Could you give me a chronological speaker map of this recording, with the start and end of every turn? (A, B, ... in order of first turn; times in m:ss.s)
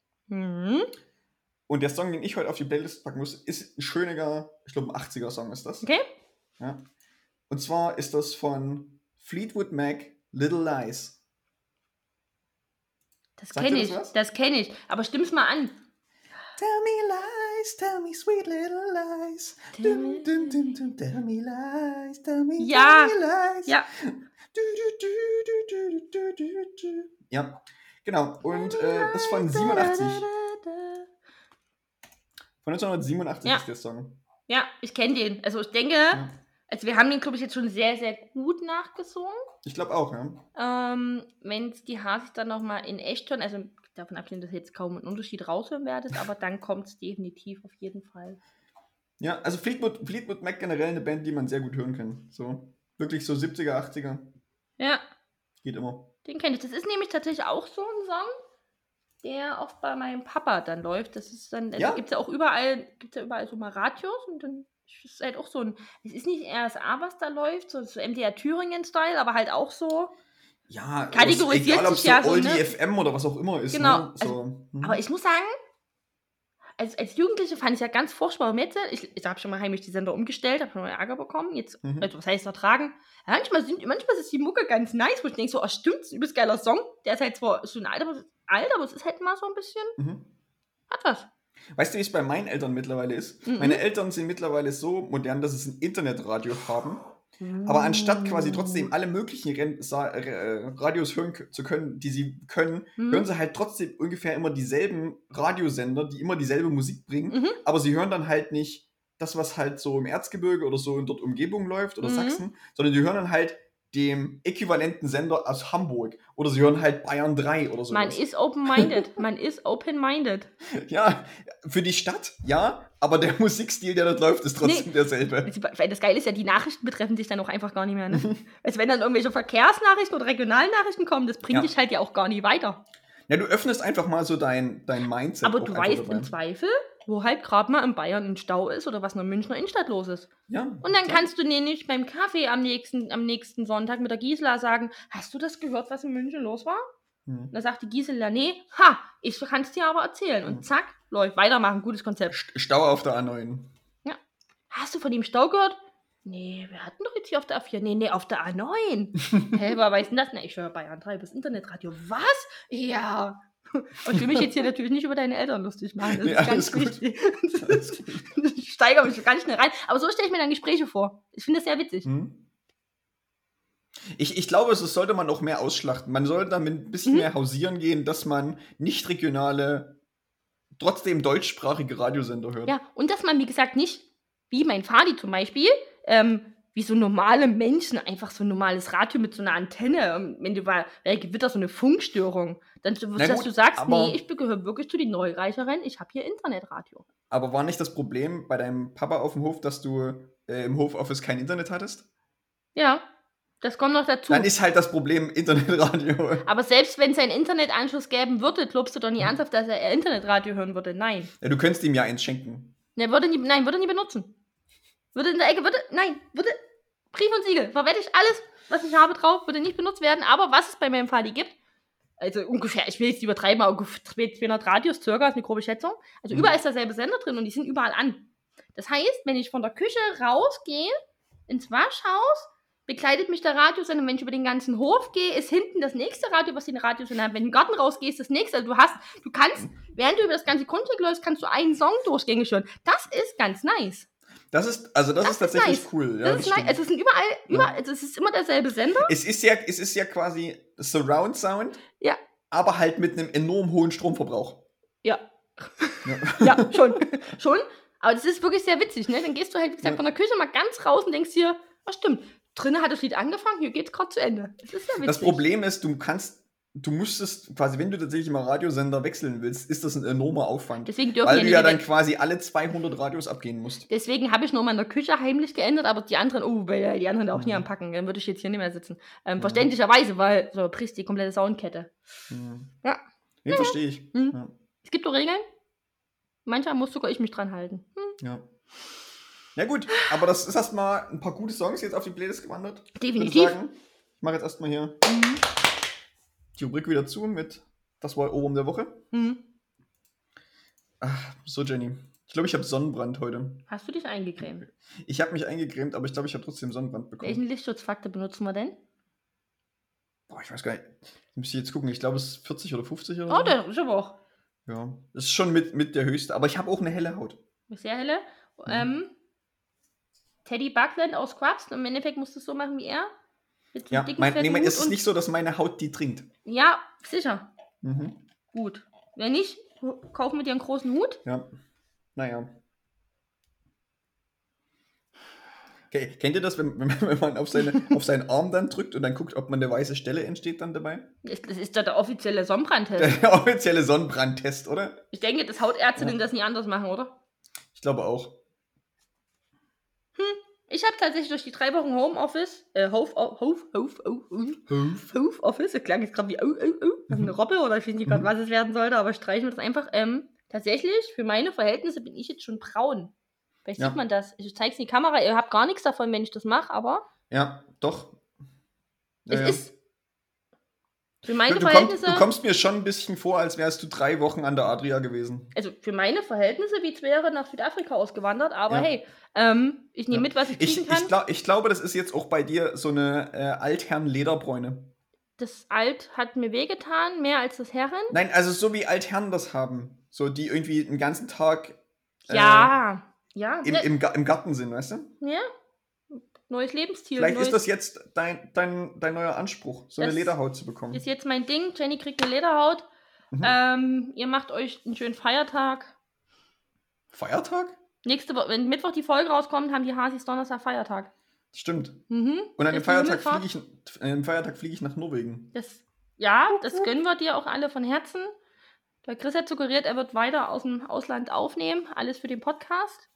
0:00.3-0:00.9 A
0:01.7-0:05.9 B
0:07.5-0:11.2 B
0:13.4-0:15.7 A
0:13.5-0:14.1 B
0:16.6-0:30.3 B
0:19.8-0:20.6 A
0:22.6-0:23.1 A
0:28.4-0:31.1 A
0:32.6-0:34.2 B
0:34.5-0:39.4 A
0:39.6-0:40.4 B
0:40.5-0:48.4 A
0:49.2-0:54.3 B
0:55.6-0:56.1 B
0:56.2-0:58.3 A
0:59.2-1:10.1 A
1:01.8-1:02.0 B
1:10.7-1:15.0 B
1:11.1-1:12.7 A
1:13.7-1:15.5 A
1:16.8-1:30.0 A
1:21.8-1:22.1 B
1:30.0-1:30.3 B
1:30.9-1:31.3 A
1:31.8-1:37.0 B
1:33.5-1:33.8 A
1:37.4-1:38.9 A
1:37.6-1:58.2 B
1:43.0-1:43.2 A
1:47.3-1:47.6 A
1:52.0-1:52.4 A
1:57.9-2:00.5 A
1:58.7-1:59.0 B
2:00.7-2:05.5 B
2:04.6-2:12.8 A
2:08.1-2:08.4 B
2:13.3-2:16.3 B
2:15.4-2:20.3 A
2:20.5-2:21.3 B
2:20.8-2:26.8 A
2:27.2-2:27.5 B
2:27.5-2:32.3 A
2:32.3-2:33.7 B
2:34.7-2:52.1 A
2:44.1-2:44.4 B
2:46.0-2:47.0 B
2:47.6-2:48.2 B
2:52.0-2:52.4 B
2:54.1-3:00.0 B
3:00.8-3:02.8 B
3:02.7-3:17.0 A
3:13.2-3:14.2 B
3:17.3-3:22.1 B
3:22.7-3:23.0 A
3:23.6-3:24.5 A
3:24.3-3:26.5 B
3:26.4-3:31.3 A
3:31.4-3:32.7 B
3:33.0-3:34.3 A
3:35.1-3:36.6 A
3:37.1-3:41.5 A
3:42.2-3:50.9 A
3:51.5-4:04.1 A
4:04.5-4:06.8 B
4:05.2-4:09.1 A
4:09.0-4:11.8 B
4:12.5-4:14.6 B
4:15.0-4:25.4 A
4:16.0-4:17.0 B
4:25.0-4:33.9 B
4:30.8-4:31.8 A
4:33.9-4:41.9 A
4:37.3-4:37.6 B
4:39.4-4:39.7 B
4:42.3-4:42.7 B
4:42.8-4:45.4 A
4:43.4-4:44.5 B
4:46.4-4:48.1 A
4:48.2-4:48.4 B
4:49.6-4:55.0 B
4:53.0-4:53.6 A
4:55.0-4:55.4 A
4:56.6-4:59.0 B
4:59.1-4:59.4 A
5:01.0-5:03.6 B
5:03.7-5:04.6 A
5:05.0-5:07.4 B
5:07.2-5:08.8 A
5:10.3-5:13.6 B
5:13.3-5:14.2 A
5:14.7-5:17.4 B
5:17.7-5:19.1 A
5:20.4-5:23.1 A
5:23.7-5:25.0 A
5:23.9-5:26.3 B
5:26.4-5:27.5 A
5:27.8-5:28.2 B
5:28.5-5:31.2 A
5:32.2-5:32.5 B
5:35.9-5:41.1 B
5:41.2-5:43.2 A
5:43.0-5:45.0 B
5:45.1-5:47.1 A
5:47.7-5:48.4 B
5:50.2-6:03.1 A
5:54.7-5:55.0 B
6:03.6-6:07.0 A
6:07.3-6:08.2 B
6:09.3-6:09.6 B
6:09.3-6:09.7 A
6:11.2-6:12.3 A
6:11.4-6:15.5 B
6:15.5-6:21.1 A
6:20.1-6:24.9 B
6:25.4-6:28.2 A
6:28.1-6:32.7 B
6:32.3-6:33.9 A
6:33.6-6:35.1 B
6:35.2-6:35.5 A
6:36.1-6:37.6 A
6:37.2-6:41.0 B
6:40.0-6:40.4 A
6:40.9-6:42.9 A
6:43.4-6:45.9 A
6:47.1-6:47.8 B
6:48.0-6:51.1 A
6:51.5-6:52.0 B
6:52.1-6:53.4 A
6:52.6-6:55.5 B
6:55.5-6:58.3 A
6:59.0-7:03.0 A